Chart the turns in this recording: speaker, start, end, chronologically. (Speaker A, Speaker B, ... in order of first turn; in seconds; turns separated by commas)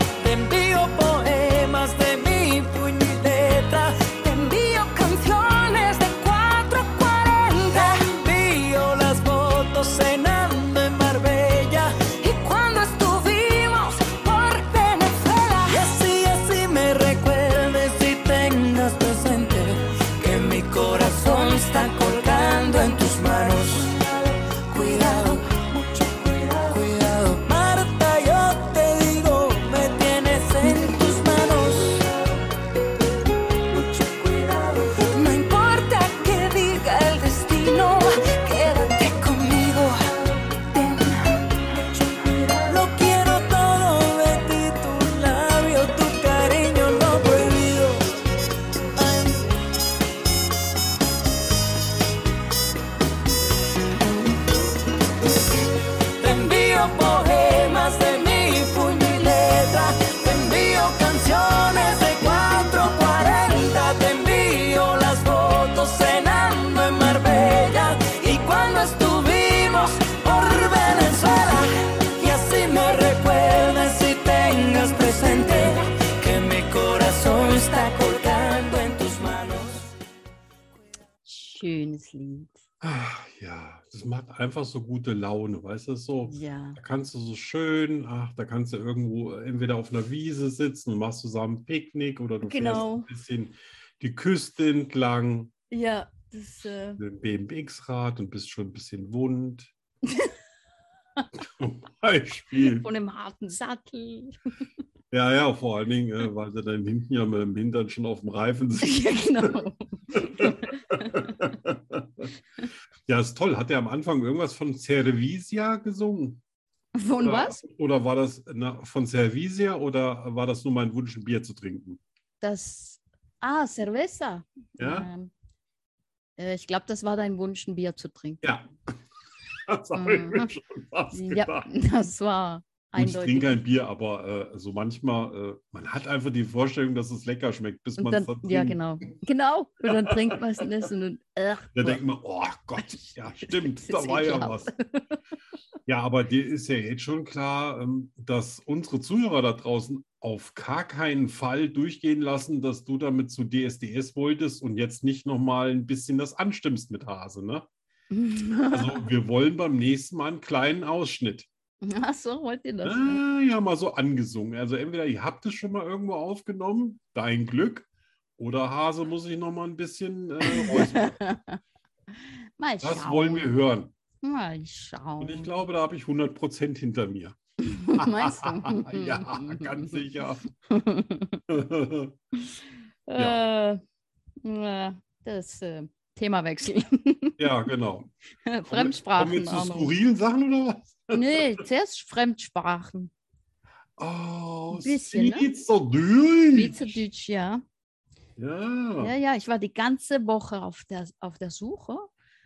Speaker A: 0.2-4.4, Speaker B: 4.2-8.1, Speaker A: 7.7-12.2, Speaker B: 12.2-15.9, Speaker A: 15.7-23.9, Speaker B: 23.8-24.1, Speaker A: 24.7-26.0, Speaker B: 24.8-26.8, Speaker A: 26.7-32.0, Speaker B: 30.6-32.0, Speaker B: 33.7-42.7, Speaker A: 42.7-48.0, Speaker A: 56.2-71.6, Speaker B: 59.0-59.5, Speaker A: 72.2-79.9, Speaker C: 81.3-82.6, Speaker D: 82.8-95.5, Speaker C: 86.3-86.8, Speaker C: 92.4-93.1, Speaker C: 95.7-97.0, Speaker D: 97.0-99.7, Speaker C: 100.1-100.3, Speaker D: 101.4-102.9, Speaker C: 102.6-104.4, Speaker D: 105.1-109.6, Speaker C: 108.8-111.4, Speaker D: 110.2-112.3, Speaker D: 113.1-116.4, Speaker C: 117.0-117.6, Speaker D: 117.2-122.0, Speaker C: 122.4-125.3, Speaker D: 124.8-125.1, Speaker C: 126.4-128.4, Speaker D: 128.4-128.9, Speaker D: 129.7-131.7, Speaker C: 129.9-130.5, Speaker C: 131.1-133.6, Speaker D: 132.9-139.1, Speaker C: 138.0-142.0, Speaker D: 139.9-140.6, Speaker D: 141.8-144.7, Speaker C: 142.8-145.1, Speaker D: 145.9-157.7, Speaker C: 158.1-159.1, Speaker D: 158.7-161.5, Speaker C: 161.8-163.2, Speaker D: 162.8-171.2, Speaker C: 170.4-171.6, Speaker C: 172.6-173.6, Speaker D: 172.8-173.9, Speaker C: 174.2-175.5, Speaker D: 175.2-177.4, Speaker C: 177.6-180.0, Speaker D: 177.9-180.4, Speaker C: 180.7-181.4, Speaker D: 181.5-182.2, Speaker C: 182.4-183.8, Speaker D: 183.2-183.4, Speaker C: 184.4-187.4, Speaker D: 187.4-188.1, Speaker C: 188.5-189.9, Speaker D: 188.7-191.4, Speaker C: 191.1-193.1, Speaker D: 194.0-197.0, Speaker C: 194.7-195.5, Speaker C: 196.5-197.6, Speaker D: 198.4-199.1, Speaker C: 199.0-202.1